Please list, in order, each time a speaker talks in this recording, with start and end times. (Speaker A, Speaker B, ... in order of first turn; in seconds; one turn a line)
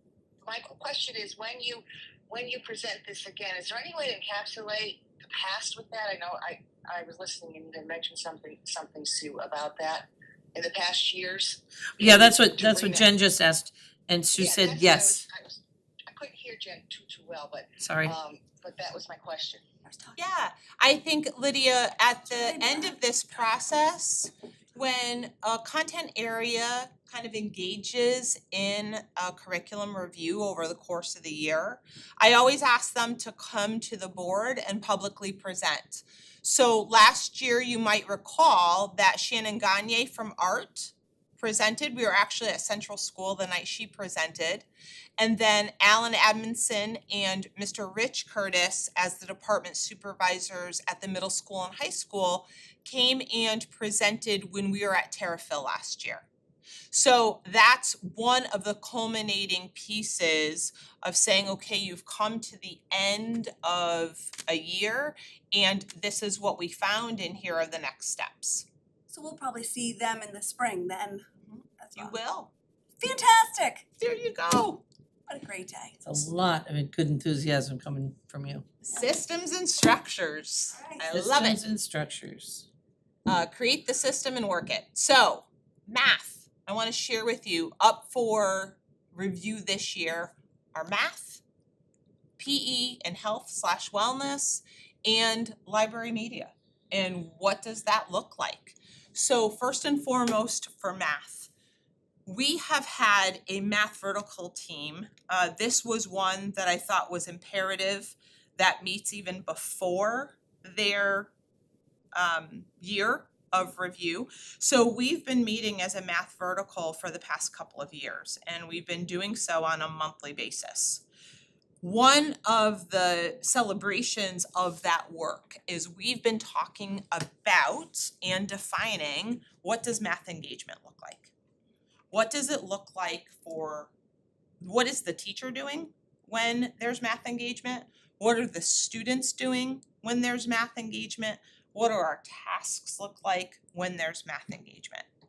Speaker A: 0.4-13.1
Speaker B: 12.0-15.3
Speaker A: 14.4-19.6
Speaker B: 17.8-18.2
Speaker C: 19.8-20.2
Speaker D: 20.2-44.7
Speaker C: 22.3-23.0
Speaker D: 45.2-56.3
Speaker D: 56.9-68.7
Speaker C: 69.1-71.3
Speaker D: 71.4-72.5
Speaker C: 71.8-72.2
Speaker C: 73.0-73.9
Speaker D: 74.0-74.8
Speaker C: 75.3-76.2
Speaker B: 76.0-78.7
Speaker D: 78.8-81.6
Speaker C: 80.7-81.1
Speaker B: 81.1-82.7
Speaker D: 83.3-91.4
Speaker D: 92.4-101.5
Speaker D: 102.3-111.3
Speaker D: 112.2-121.0
Speaker D: 121.8-131.3
Speaker D: 132.1-133.9
Speaker D: 134.6-145.1